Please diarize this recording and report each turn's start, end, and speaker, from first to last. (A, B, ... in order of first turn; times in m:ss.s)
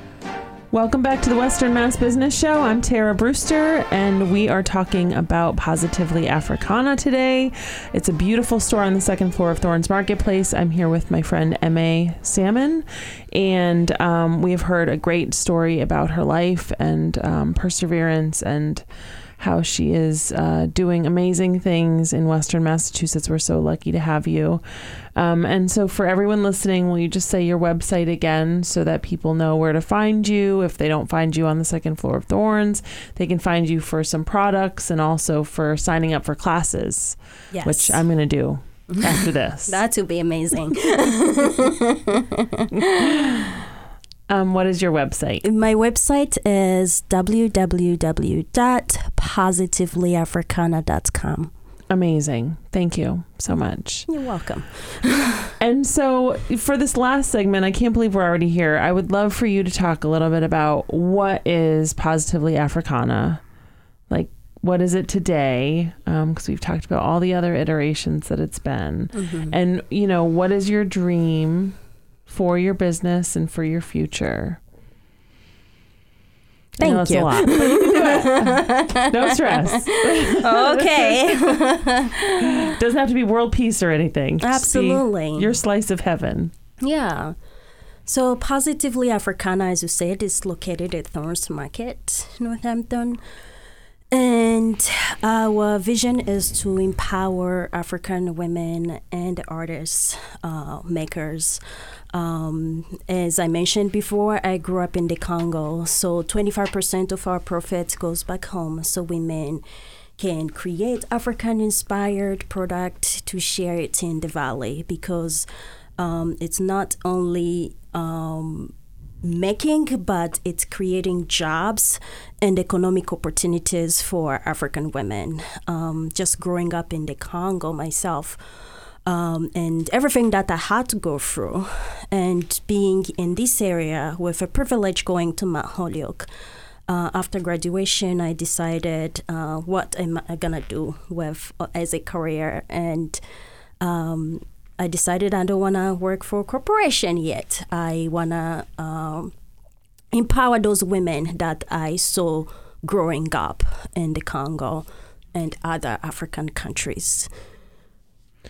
0:00.7-0:18.8 A
0:19.4-0:39.8 A
0:37.5-0:38.0 B
0:38.9-0:43.3 B
0:43.0-0:43.6 A
0:44.3-0:45.4 A
0:45.4-0:51.5 B
0:51.9-0:54.1 A
0:54.1-0:55.5 B
0:55.6-1:03.4 A
1:04.1-1:14.6 A
1:09.1-1:09.6 B
1:16.8-1:21.6 A
1:16.8-1:22.7 B
1:22.4-1:26.5 A
1:24.4-1:25.5 B
1:26.8-1:27.4 B
1:28.1-1:33.2 B
1:34.1-1:41.6 B
1:42.1-1:49.6 B
1:50.2-1:55.5 B
1:56.0-1:58.7 B
1:59.2-2:16.3 B
2:16.9-2:23.2 B
2:23.8-2:29.3 B
2:30.1-2:37.3 B